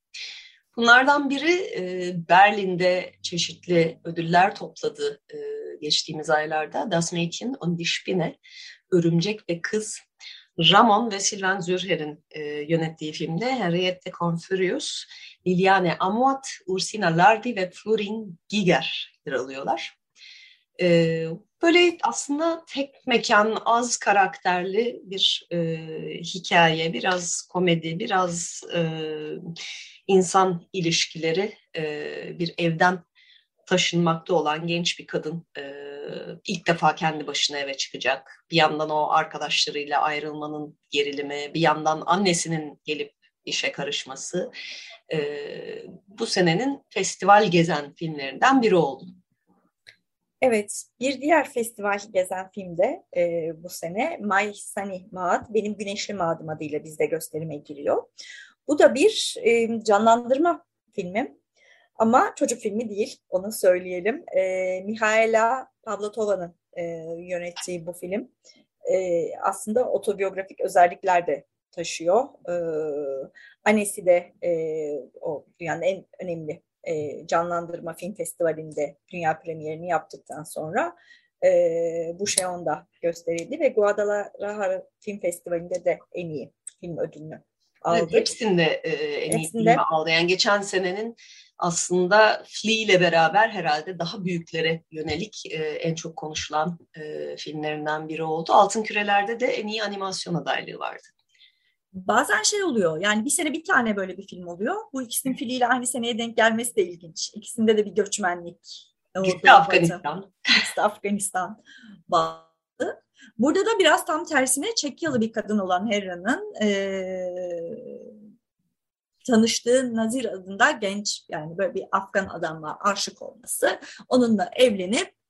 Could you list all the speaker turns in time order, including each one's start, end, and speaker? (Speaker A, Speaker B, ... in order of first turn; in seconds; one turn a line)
Speaker A: 0.7-8.3
Speaker A: 8.9-10.0
Speaker A: 10.6-19.9
Speaker A: 20.8-29.5
Speaker A: 30.1-33.0
Speaker A: 33.6-44.5
Speaker A: 45.1-49.1
Speaker B: 50.4-58.1
Speaker B: 58.7-61.3
Speaker B: 62.0-68.3
Speaker B: 68.8-88.3
Speaker A: 87.9-101.1
Speaker B: 89.3-89.8
Speaker B: 101.9-118.0
Speaker A: 109.2-110.3
Speaker B: 119.2-125.1